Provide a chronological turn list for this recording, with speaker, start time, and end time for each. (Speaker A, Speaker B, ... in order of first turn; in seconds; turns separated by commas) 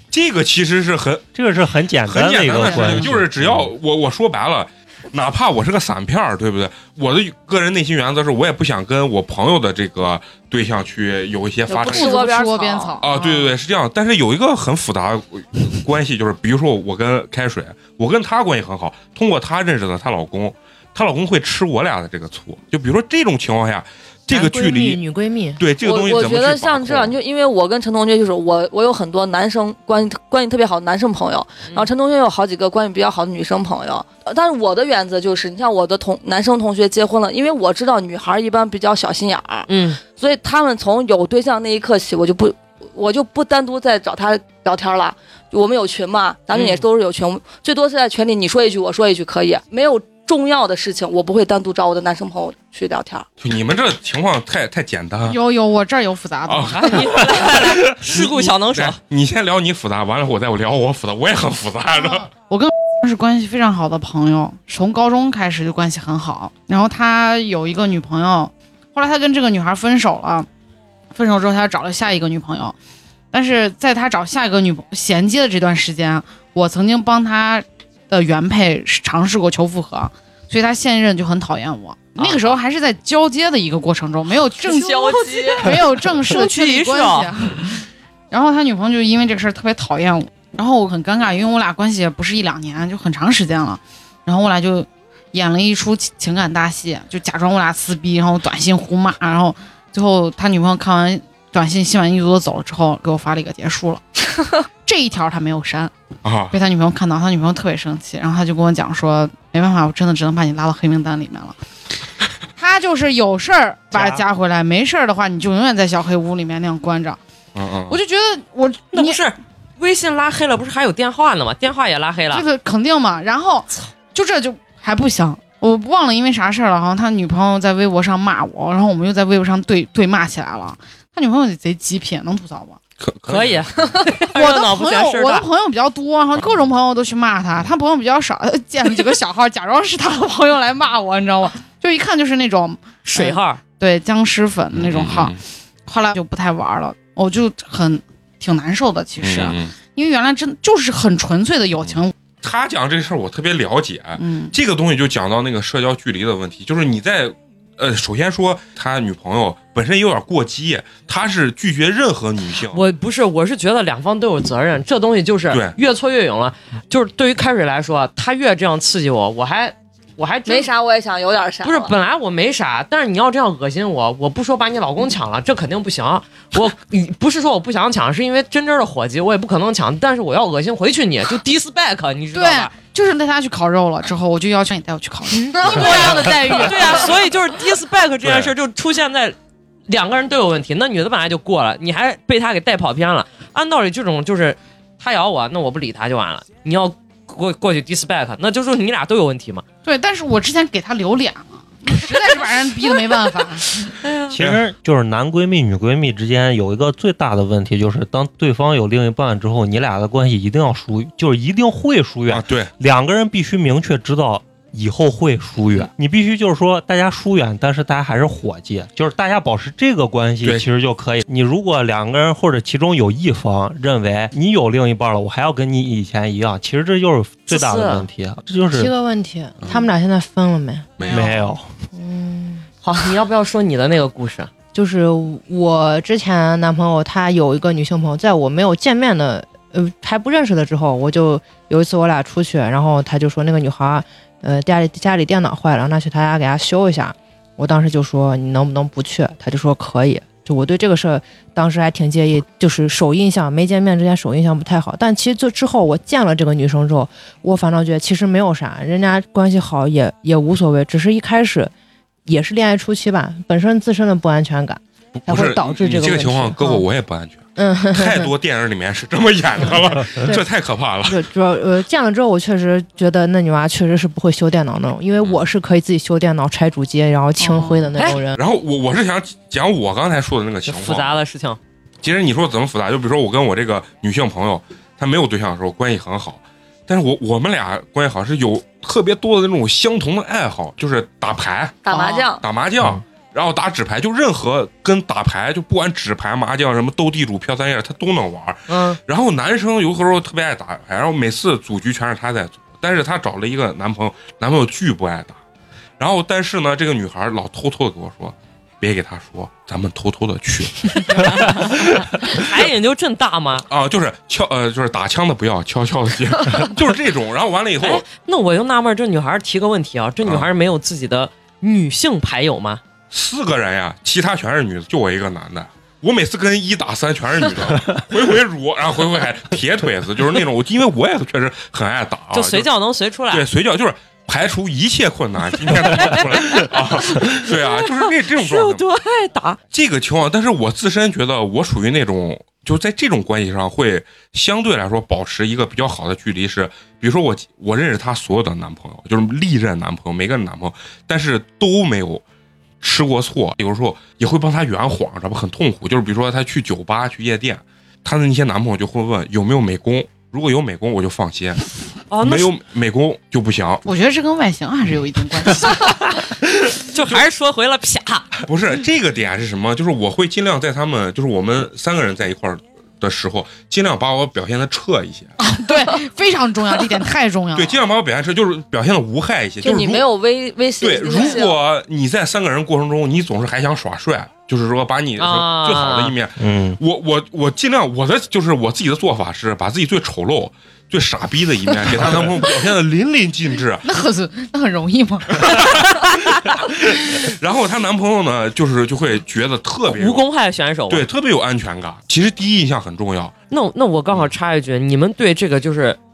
Speaker A: 0.1-1.3, Speaker B: 1.4-3.7, Speaker A: 2.1-12.2, Speaker C: 2.5-3.1, Speaker D: 11.7-13.0, Speaker C: 11.8-13.6, Speaker A: 13.0-25.0, Speaker E: 24.3-25.6, Speaker A: 25.6-27.2, Speaker D: 25.8-53.2, Speaker F: 39.7-40.0, Speaker F: 46.5-46.8, Speaker A: 53.4-55.4, Speaker C: 55.3-57.1, Speaker A: 56.5-62.3, Speaker F: 56.7-59.0, Speaker C: 62.0-70.5, Speaker C: 71.1-72.8, Speaker C: 73.3-104.1, Speaker F: 82.2-82.5, Speaker D: 84.7-85.7, Speaker F: 84.7-87.3, Speaker C: 104.8-105.9, Speaker A: 106.2-106.6, Speaker C: 106.5-111.6, Speaker C: 112.6-117.2, Speaker A: 117.5-118.0, Speaker C: 117.9-119.2, Speaker F: 118.9-122.5, Speaker C: 122.3-132.8, Speaker A: 133.0-134.1, Speaker F: 133.3-135.5, Speaker C: 134.2-152.1, Speaker F: 143.0-143.6, Speaker A: 144.7-145.4, Speaker A: 149.2-149.7, Speaker A: 151.9-162.8, Speaker C: 154.2-154.5, Speaker F: 162.7-170.7, Speaker A: 165.5-165.8, Speaker D: 170.5-171.9, Speaker F: 171.6-182.7, Speaker C: 182.3-186.1, Speaker D: 185.5-187.3, Speaker F: 185.6-189.3, Speaker A: 188.2-188.5, Speaker F: 189.9-199.6, Speaker C: 199.8-204.0, Speaker F: 204.0-204.4, Speaker B: 204.3-228.9, Speaker A: 204.4-204.6, Speaker A: 212.3-212.7, Speaker F: 227.5-228.1, Speaker E: 228.7-231.1, Speaker A: 231.0-231.3, Speaker B: 231.1-231.7, Speaker E: 231.9-232.7, Speaker F: 232.8-234.5, Speaker E: 234.7-261.7, Speaker E: 262.3-266.8, Speaker A: 265.1-267.4, Speaker E: 267.6-268.3, Speaker A: 267.9-271.2, Speaker E: 269.6-270.4, Speaker E: 271.0-278.4, Speaker C: 277.4-277.9, Speaker A: 278.4-281.2, Speaker F: 280.6-281.6, Speaker A: 282.0-291.8, Speaker D: 291.8-292.4, Speaker F: 291.9-292.2, Speaker A: 292.4-305.4, Speaker F: 298.7-299.0, Speaker A: 306.0-311.6, Speaker F: 311.0-313.6, Speaker A: 313.7-318.0, Speaker F: 317.8-322.8, Speaker A: 323.1-332.7, Speaker F: 332.3-333.5, Speaker A: 333.3-338.8, Speaker F: 335.9-339.6, Speaker A: 339.7-352.2, Speaker A: 352.8-361.6, Speaker F: 362.1-362.5, Speaker A: 362.2-363.8, Speaker C: 363.9-366.1, Speaker F: 366.9-368.3, Speaker A: 368.5-375.3, Speaker C: 375.4-377.8, Speaker A: 377.6-380.1, Speaker D: 379.6-381.6, Speaker A: 380.8-393.9, Speaker C: 381.1-381.4, Speaker F: 385.2-386.1, Speaker B: 386.4-386.8, Speaker C: 393.8-395.6, Speaker A: 395.4-400.2, Speaker F: 399.9-401.1, Speaker A: 400.9-403.3, Speaker F: 403.5-406.0